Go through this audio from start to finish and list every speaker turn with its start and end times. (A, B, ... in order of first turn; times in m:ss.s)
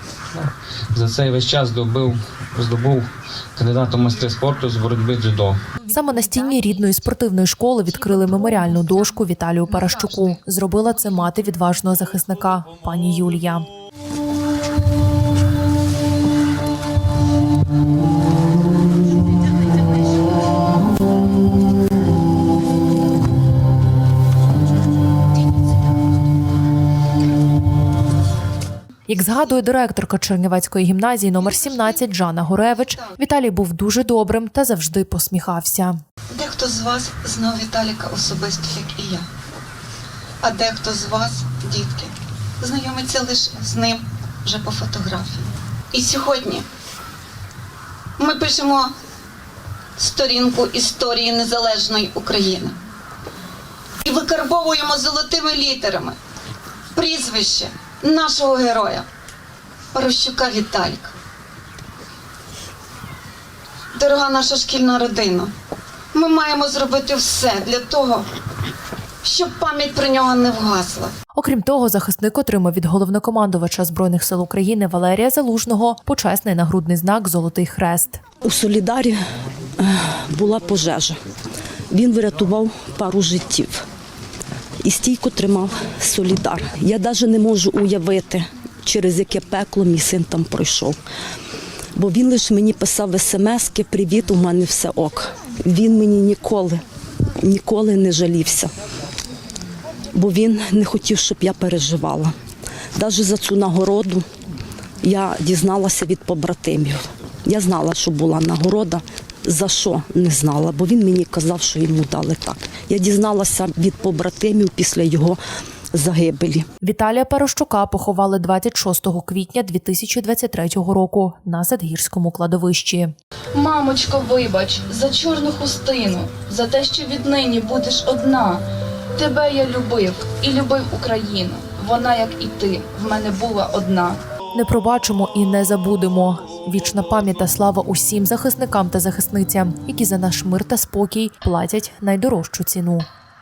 0:00.3-0:05.6 A
0:05.9-0:13.6 B
0:29.1-0:36.0 B
0:31.4-0:32.0 C
0:32.6-0:33.0 C
0:36.3-0:39.3 C
0:40.4-0:46.7 C
0:48.2-0:48.9 C
0:50.0-0:52.8 C
0:54.0-0:56.2 C
0:56.9-0:59.1 C
0:59.9-1:01.1 C
1:03.9-1:05.5 C
1:06.1-1:08.3 C
1:09.2-1:11.1 C
1:11.3-1:18.2 B
1:18.4-1:19.2 D
1:19.8-1:21.2 D
1:21.9-1:23.8 D
1:24.8-1:31.0 D
1:31.9-1:36.8 D
1:37.4-1:38.7 D
1:40.1-1:42.3 D
1:43.0-1:44.2 D
1:45.0-1:55.4 D
1:55.9-1:56.6 D
1:56.8-2:03.1 B
2:03.5-2:08.6 E
2:09.2-2:14.2 E
2:14.5-2:23.1 B